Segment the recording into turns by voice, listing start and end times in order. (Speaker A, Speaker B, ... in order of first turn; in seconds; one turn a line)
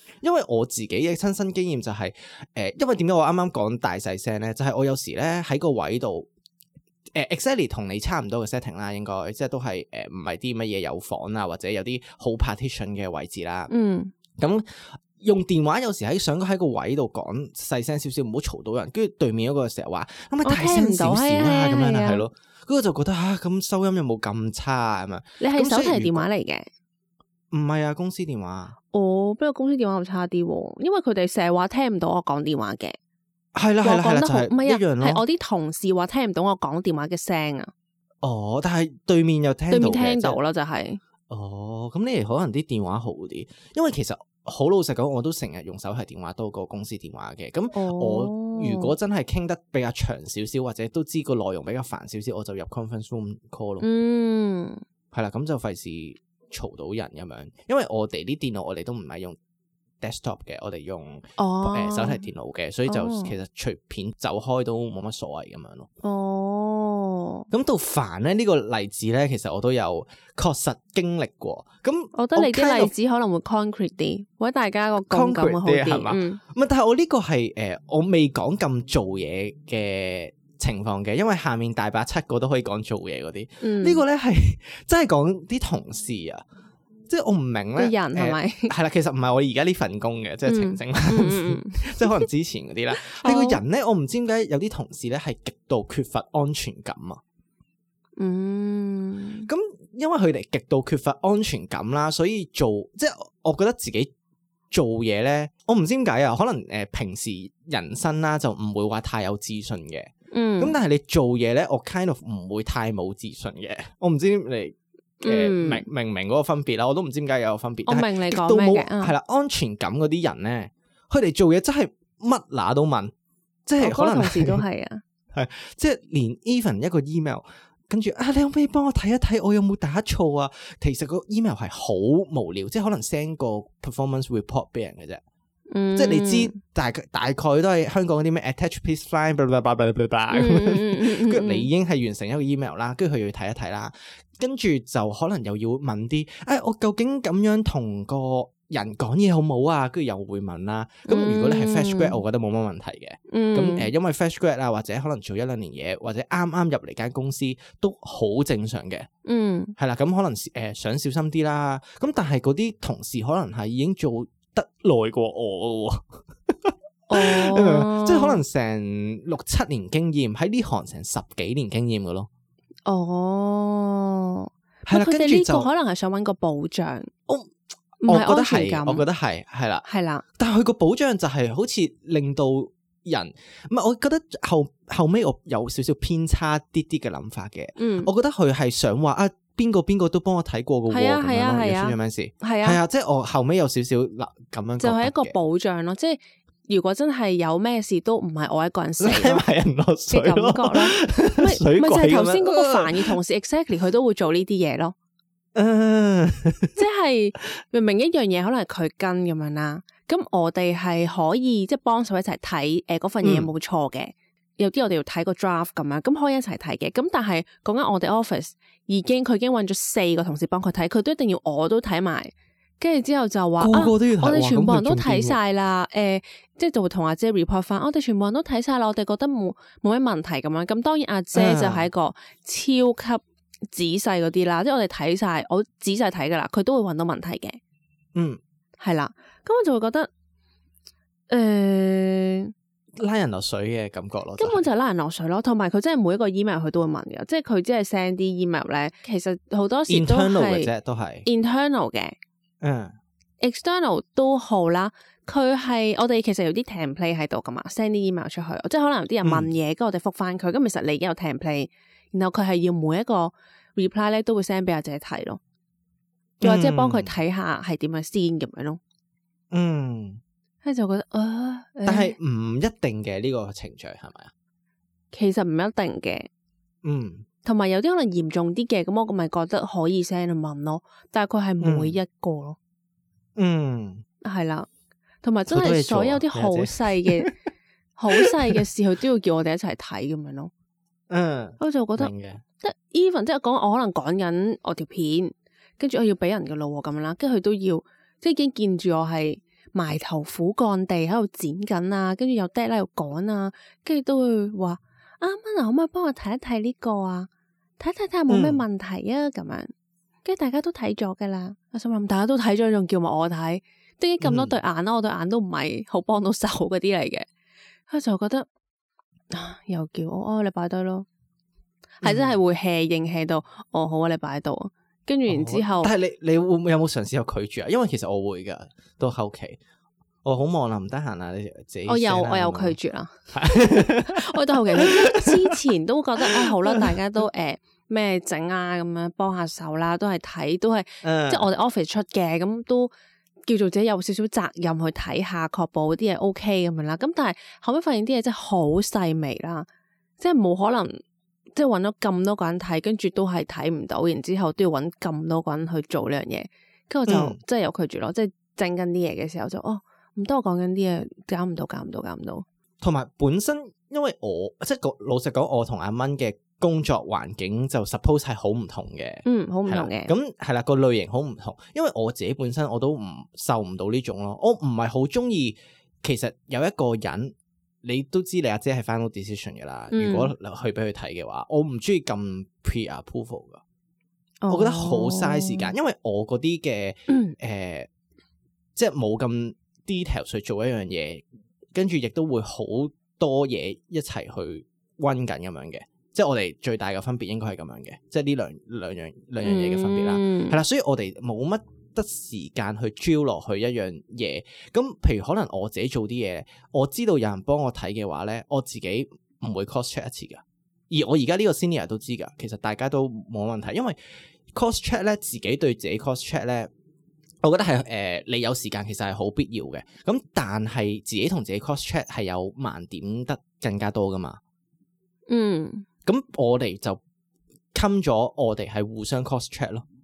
Speaker A: 0.2-6.3
Speaker A: 7.1-13.7
Speaker B: 13.7-14.1
Speaker A: 14.4-26.3
Speaker B: 20.4-22.2
Speaker B: 25.4-26.7
Speaker A: 27.5-28.8
Speaker B: 28.9-33.0
Speaker A: 33.5-35.2
Speaker B: 33.8-37.7
Speaker A: 38.2-40.4
Speaker B: 39.7-41.0
Speaker A: 41.3-53.9
Speaker B: 47.7-48.9
Speaker B: 53.8-54.8
Speaker A: 55.1-59.4
Speaker A: 60.0-65.9
Speaker B: 61.4-62.2
Speaker B: 62.9-63.3
Speaker B: 66.0-67.5
Speaker A: 67.5-72.9
Speaker B: 72.1-76.4
Speaker A: 75.1-86.4
Speaker B: 83.6-84.0
Speaker A: 87.1-97.2
Speaker B: 87.8-88.7
Speaker B: 90.5-92.2
Speaker B: 93.0-93.6
Speaker B: 98.2-99.5
Speaker A: 99.5-104.1
Speaker A: 104.7-123.1
Speaker B: 110.3-110.8
Speaker B: 115.2-115.8
Speaker B: 117.9-119.1
Speaker A: 123.7-124.6
Speaker B: 123.8-125.0
Speaker A: 125.3-135.2
Speaker B: 135.7-136.5
Speaker A: 135.9-159.1
Speaker B: 140.3-141.7
Speaker B: 151.1-152.2
Speaker B: 153.3-153.9
Speaker B: 159.2-159.7
Speaker A: 159.8-166.0
Speaker A: 166.6-172.3
Speaker B: 167.1-168.4
Speaker B: 172.8-177.1
Speaker A: 174.9-175.7
Speaker A: 177.3-179.8
Speaker B: 178.0-179.0
Speaker B: 179.8-180.2
Speaker A: 180.4-195.3
Speaker B: 187.8-188.1
Speaker B: 190.9-192.8
Speaker B: 194.8-199.4
Speaker A: 199.0-203.2
Speaker B: 200.1-204.9
Speaker A: 205.5-206.8
Speaker B: 206.8-237.6
Speaker A: 213.2-213.5
Speaker A: 223.6-225.4
Speaker A: 231.3-231.9
Speaker A: 238.1-238.4
Speaker B: 238.8-240.1
Speaker B: 241.3-242.5
Speaker A: 243.0-244.7
Speaker B: 244.4-250.7
Speaker A: 249.9-251.2
Speaker B: 251.2-252.2
Speaker A: 252.6-252.9
Speaker B: 253.4-265.4
Speaker A: 259.2-259.5
Speaker A: 266.4-267.1
Speaker B: 266.4-268.8
Speaker A: 269.5-270.2
Speaker B: 270.6-272.1
Speaker A: 271.8-274.3
Speaker B: 275.1-276.3
Speaker A: 276.8-277.2
Speaker B: 277.4-282.6
Speaker A: 281.6-282.0
Speaker A: 283.4-284.0
Speaker B: 284.2-284.7
Speaker B: 285.2-287.3
Speaker A: 285.5-287.3
Speaker B: 288.0-290.5
Speaker A: 288.1-288.6
Speaker A: 291.1-292.4
Speaker B: 291.6-309.7
Speaker A: 308.3-308.6
Speaker B: 310.2-317.2
Speaker A: 314.2-314.5
Speaker B: 317.9-318.5
Speaker B: 319.3-321.1
Speaker B: 322.0-325.9
Speaker A: 322.0-322.4
Speaker A: 325.3-329.6
Speaker A: 330.2-332.8
Speaker B: 331.9-342.9
Speaker A: 333.3-335.6
Speaker A: 336.2-336.9
Speaker A: 341.0-341.5
Speaker B: 343.4-349.7
Speaker B: 350.2-351.0
Speaker B: 351.5-362.4
Speaker A: 357.1-357.4
Speaker A: 362.8-383.6
Speaker B: 369.2-370.1
Speaker B: 379.9-380.3
Speaker B: 384.4-385.7
Speaker A: 384.5-387.9
Speaker B: 387.1-387.3
Speaker A: 388.8-414.0
Speaker B: 399.4-400.6
Speaker A: 414.5-416.7
Speaker A: 417.4-424.4
Speaker B: 425.3-425.9
Speaker A: 426.0-427.0
Speaker A: 427.7-429.8